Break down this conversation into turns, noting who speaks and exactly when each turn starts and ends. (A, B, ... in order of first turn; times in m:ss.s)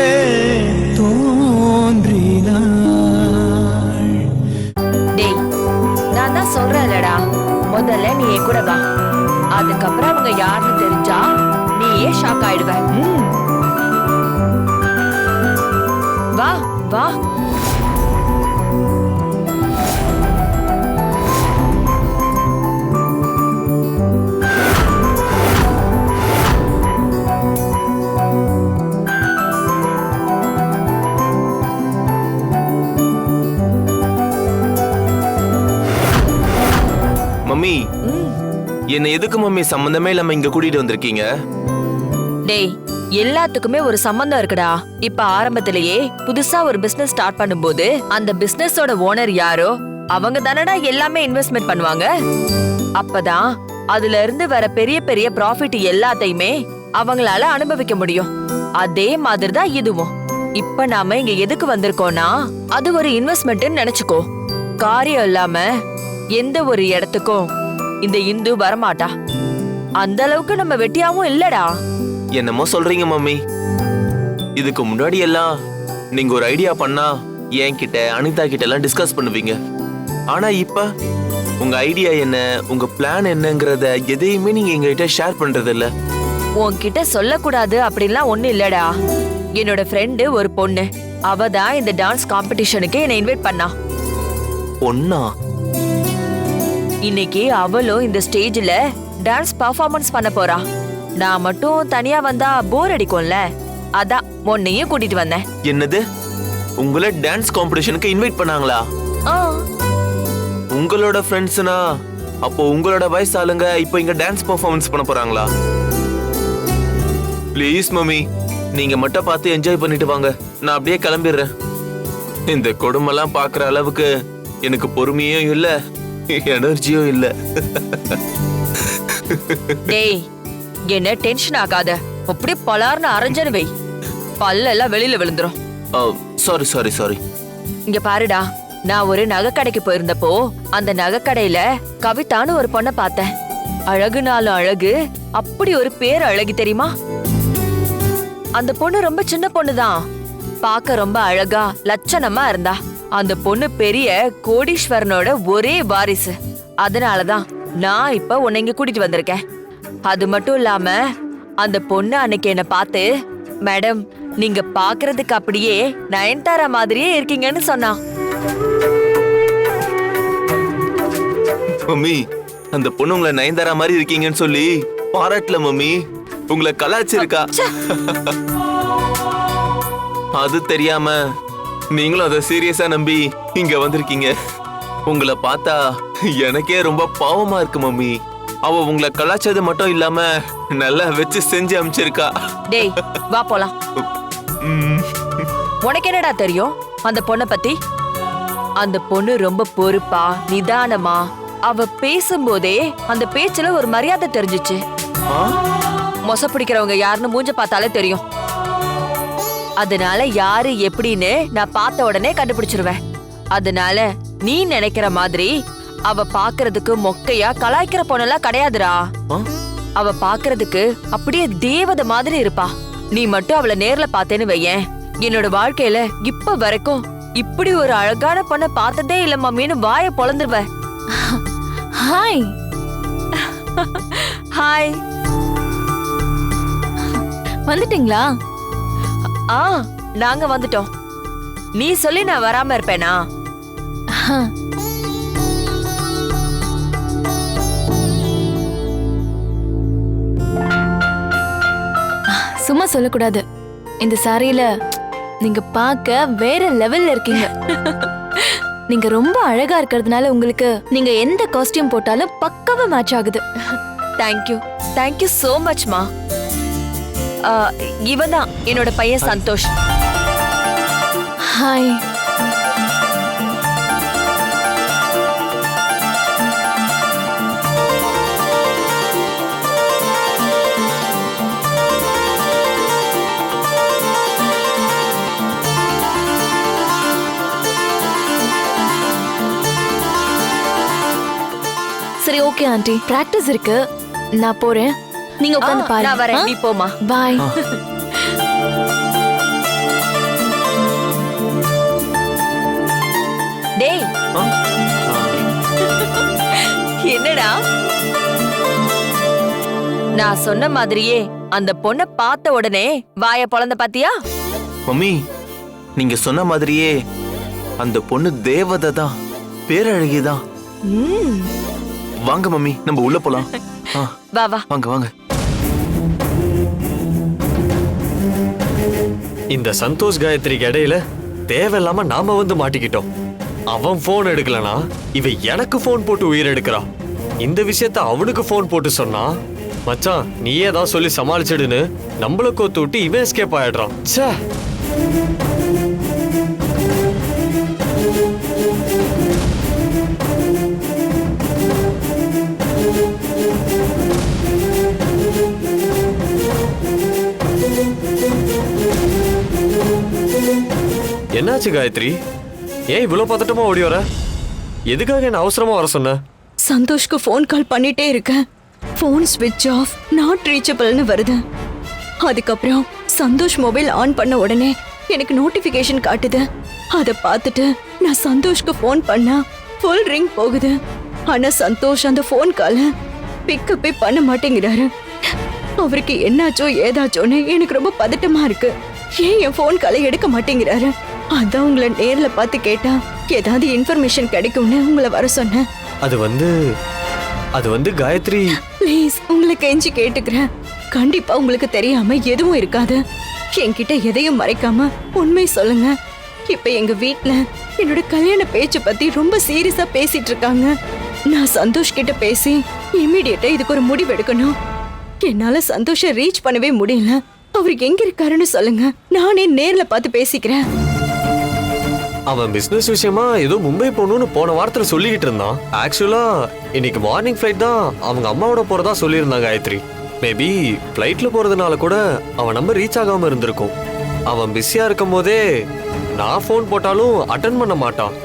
0:06.2-0:07.2 A
0:07.7-0:08.8 A
0:09.6-0:11.3 A
0:11.8-0:13.0 A
0:16.4-0:17.1 A
0:37.5-0:37.8 B
0:38.1-0:38.4 A
0:38.9-0:41.2 B
0:43.2-0:52.1 A
0:53.0-0:58.3 A
0:58.8-1:04.2 A
1:04.8-1:05.7 A
1:06.4-1:07.5 A
1:08.0-1:09.1 A
1:10.0-1:11.7 A
1:12.4-1:13.4 B
1:14.6-1:15.5 B
1:16.2-1:17.1 B
1:17.6-1:19.6 B
1:20.3-1:20.8 B
1:21.6-1:25.9 B
1:26.6-1:28.9 A
1:29.6-1:33.7 A
1:34.8-1:35.2 B
1:37.1-1:40.6 A
1:41.2-1:43.4 A
1:44.0-1:45.4 A
1:45.7-1:46.0 B
1:46.8-1:48.8 B
1:49.3-1:49.6 A
1:50.7-1:51.8 B
1:52.4-1:55.5 B
1:57.6-1:58.2 B
1:58.8-2:01.5 B
2:02.5-2:04.1 B
2:04.7-2:05.7 B
2:06.4-2:08.2 B
2:09.3-2:09.7 B
2:09.9-2:10.2 A
2:10.9-2:13.7 A
2:14.4-2:15.6 A
2:16.0-2:17.2 B
2:17.9-2:23.3 A
2:23.9-2:26.9 A
2:28.6-2:30.0 A
2:30.6-2:36.3 A
2:36.8-2:39.4 A
2:40.1-2:41.0 A
2:41.6-2:43.1 A
2:43.7-2:48.0 A
2:51.9-2:52.2 B
2:52.7-2:56.0 B
2:56.5-2:58.4 B
3:00.4-3:01.2 B
3:01.9-3:04.3 B
3:05.1-3:05.8 B
3:06.4-3:08.1 B
3:08.7-3:10.2 B
3:10.8-3:12.3 B
3:12.7-3:13.7 A
3:14.7-3:15.1 B
3:15.8-3:17.8 A
3:18.8-3:24.8 A
3:26.3-3:28.2 A
3:29.8-3:33.0 A
3:33.6-3:35.5 A
3:36.1-3:39.0 A
3:40.0-3:50.6 A
3:52.0-3:52.5 C
3:54.0-3:55.0 A
3:57.7-3:58.3 C
3:59.5-4:00.9 A
4:01.8-4:03.2 A
4:04.2-4:04.5 C
4:12.3-4:13.4 C
4:14.0-4:14.7 C
4:15.4-4:17.5 C
4:18.9-4:23.4 C
4:24.2-4:26.1 A
4:27.5-4:29.7 A
4:31.5-4:32.0 C
4:52.2-4:53.8 C
4:54.4-4:56.5 C
4:55.6-4:56.9 A
4:57.0-4:57.5 C
5:03.8-5:04.1 A
5:07.1-5:07.5 A
5:10.2-5:14.1 A
5:14.9-5:15.1 B
5:16.0-5:16.9 B
5:17.8-5:19.1 B
5:19.7-5:20.4 B
5:22.3-5:24.1 B
5:24.4-5:24.6 A
5:24.7-5:25.1 B
5:29.5-5:33.1 D
5:33.7-5:36.8 D
5:37.4-5:39.3 D
5:39.9-5:44.4 D
6:01.4-6:02.1 D
6:02.9-6:04.0 D
6:04.9-6:06.2 D
6:06.6-6:08.4 E
6:09.0-6:11.4 E
6:12.2-6:16.4 E
6:17.0-6:20.8 E
6:21.3-6:22.9 E
6:23.5-6:24.9 E
6:25.8-6:35.6 E
6:36.1-6:36.5 D
6:37.6-6:38.6 D
6:38.6-6:43.0 E
6:43.6-6:45.9 E
6:46.5-6:50.7 E
6:51.3-6:54.5 E
6:55.2-7:00.6 E
7:02.3-7:13.7 D
7:14.3-7:15.4 D
7:16.2-7:18.1 D